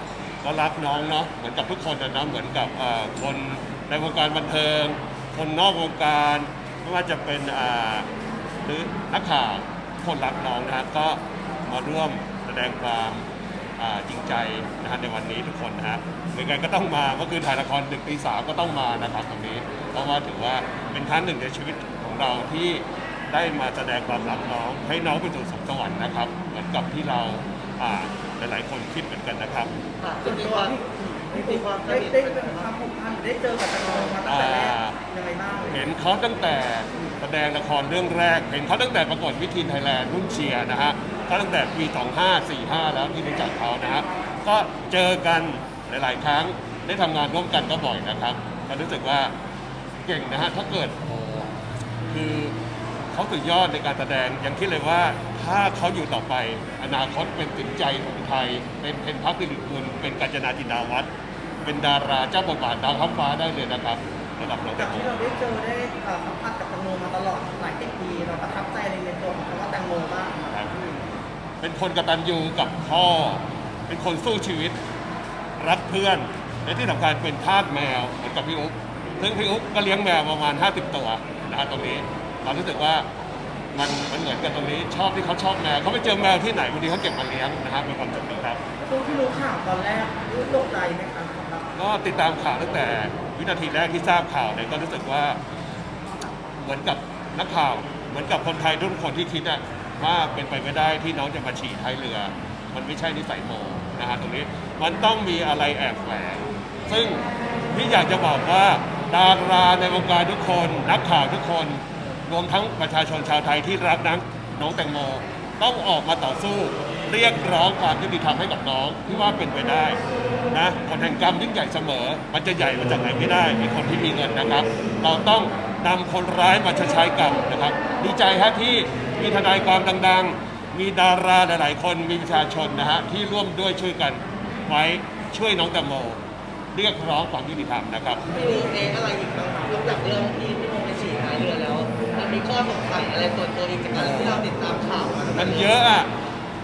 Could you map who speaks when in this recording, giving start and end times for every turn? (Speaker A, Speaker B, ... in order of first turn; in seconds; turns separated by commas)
Speaker A: 0.4-8.1, Speaker A: 8.6-13.3, Speaker A: 13.8-29.7, Speaker B: 30.0-32.7, Speaker C: 30.2-35.9, Speaker B: 33.8-34.2, Speaker A: 34.2-35.0, Speaker A: 35.7-49.3, Speaker A: 50.0-51.5, Speaker A: 52.1-52.5, Speaker A: 53.1-61.1, Speaker A: 61.6-65.1, Speaker C: 64.7-71.0, Speaker A: 71.6-74.8, Speaker A: 75.6-83.1, Speaker A: 83.7-88.6, Speaker C: 88.8-91.7, Speaker A: 91.7-95.4, Speaker A: 96.6-120.0, Speaker A: 120.5-136.2, Speaker A: 136.7-138.2, Speaker B: 138.3-145.8, Speaker A: 143.9-144.4, Speaker A: 145.3-146.1